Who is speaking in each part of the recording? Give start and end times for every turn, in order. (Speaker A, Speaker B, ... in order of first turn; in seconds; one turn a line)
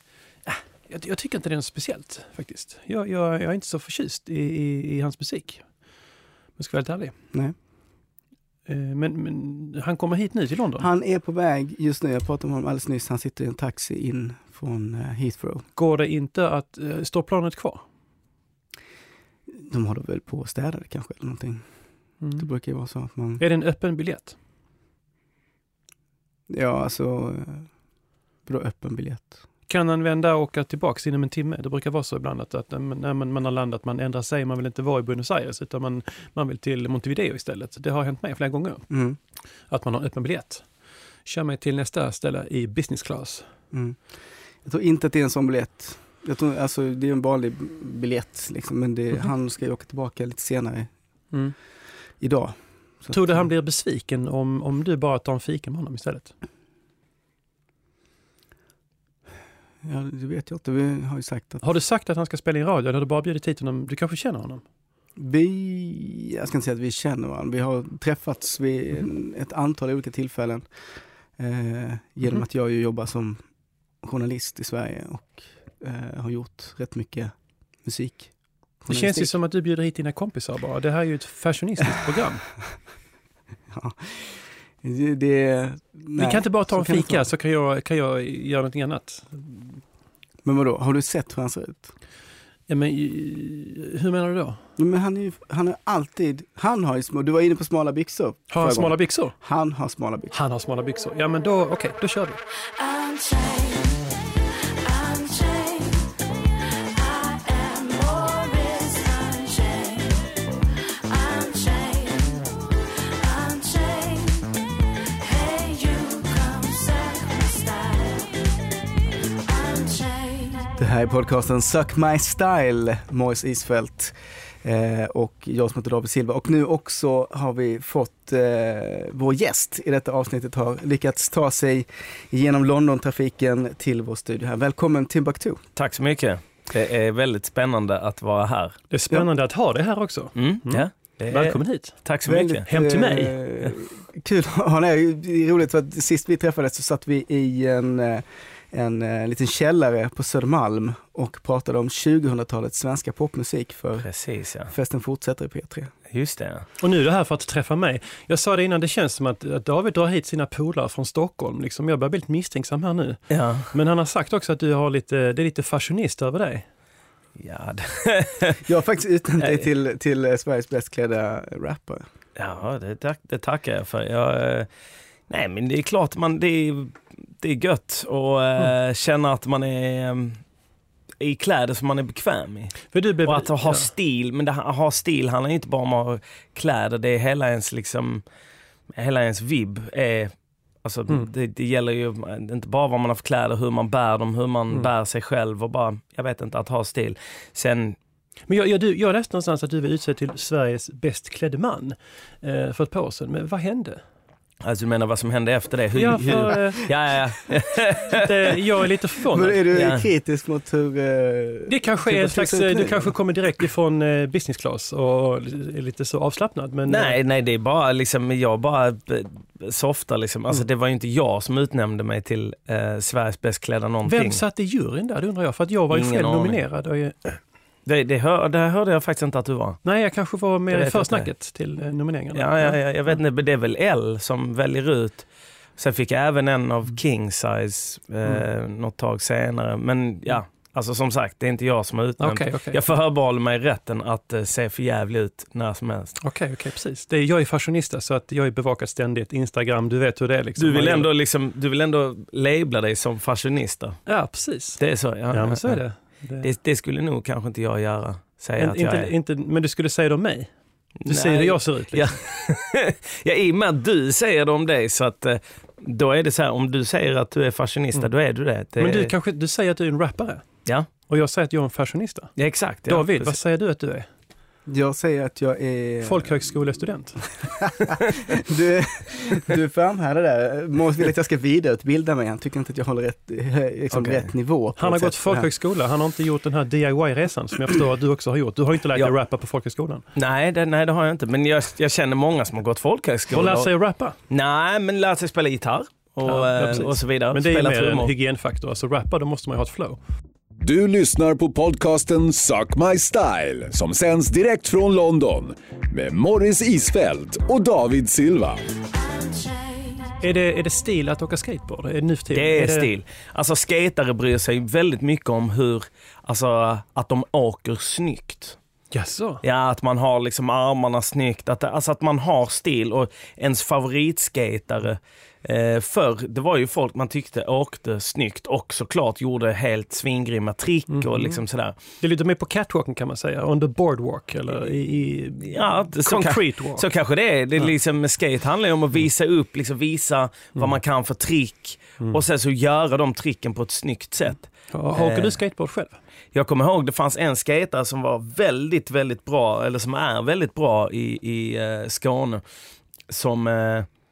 Speaker A: 0.5-5.7
Speaker A: 6.6-7.1
Speaker A: 8.7-10.9
Speaker B: 10.8-15.6
Speaker A: 15.8-17.8
Speaker B: 19.5-21.6
Speaker A: 22.2-22.4
Speaker B: 22.4-23.4
Speaker A: 23.4-24.4
Speaker B: 26.5-27.7
Speaker B: 28.4-29.4
Speaker A: 29.7-38.8
Speaker B: 38.9-39.2
Speaker A: 39.7-40.6
Speaker A: 41.2-43.5
Speaker B: 43.7-44.0
Speaker B: 44.6-50.9
Speaker B: 52.2-53.1
Speaker A: 53.1-56.3
Speaker B: 59.8-61.6
Speaker A: 61.6-64.6
Speaker B: 65.2-70.6
Speaker B: 71.4-73.4
Speaker B: 74.0-77.3
Speaker B: 77.8-79.3
Speaker A: 78.9-82.4
Speaker B: 83.7-87.3
Speaker A: 86.1-89.8
Speaker B: 90.4-91.9
Speaker A: 92.7-94.6
Speaker B: 94.8-100.3
Speaker A: 98.5-99.3
Speaker A: 100.3-102.4
Speaker C: 102.8-110.3
Speaker C: 111.0-118.5
Speaker C: 119.2-120.7
Speaker B: 120.8-135.6
Speaker D: 135.8-138.8
Speaker A: 138.9-141.9
Speaker D: 140.3-142.6
Speaker B: 142.2-154.1
Speaker A: 142.7-143.4
Speaker D: 154.0-154.7
Speaker B: 154.7-155.9
Speaker D: 156.1-156.6
Speaker A: 156.8-166.7
Speaker D: 163.3-163.7
Speaker D: 167.4-168.6
Speaker B: 168.6-172.0
Speaker D: 172.3-174.7
Speaker D: 175.3-180.4
Speaker D: 181.2-188.2
Speaker A: 182.9-183.9
Speaker D: 188.9-190.3
Speaker D: 190.8-198.0
Speaker A: 198.5-204.0
Speaker D: 204.6-208.3
Speaker A: 205.9-206.9
Speaker A: 208.1-209.6
Speaker B: 209.3-213.1
Speaker D: 209.7-210.1
Speaker A: 211.7-217.2
Speaker D: 216.9-224.4
Speaker A: 224.0-227.4
Speaker D: 225.9-226.6
Speaker D: 227.8-229.8
Speaker A: 229.8-232.8
Speaker D: 230.7-231.3
Speaker D: 232.3-235.2
Speaker D: 235.8-246.2
Speaker A: 242.2-242.8
Speaker A: 246.2-251.1
Speaker D: 250.6-254.0
Speaker A: 254.1-256.5
Speaker D: 254.8-255.8
Speaker D: 256.4-259.1
Speaker A: 258.6-260.5
Speaker D: 261.0-269.1
Speaker A: 261.1-262.2
Speaker A: 268.8-270.4
Speaker A: 271.1-272.3
Speaker D: 272.4-273.3
Speaker A: 272.9-274.1
Speaker B: 274.7-276.4
Speaker A: 276.0-277.2
Speaker B: 277.4-285.5
Speaker D: 283.9-284.3
Speaker A: 284.8-290.0
Speaker D: 290.1-293.7
Speaker A: 293.3-294.2
Speaker D: 294.3-298.1
Speaker A: 296.2-300.0
Speaker E: 300.6-308.6
Speaker C: 308.7-310.2
Speaker A: 310.2-312.9
Speaker D: 312.3-318.6
Speaker A: 318.9-319.4
Speaker D: 319.4-331.8
Speaker A: 330.9-331.4
Speaker A: 332.0-336.8
Speaker D: 335.4-345.4
Speaker A: 344.7-346.0
Speaker D: 346.3-352.4
Speaker D: 353.1-353.9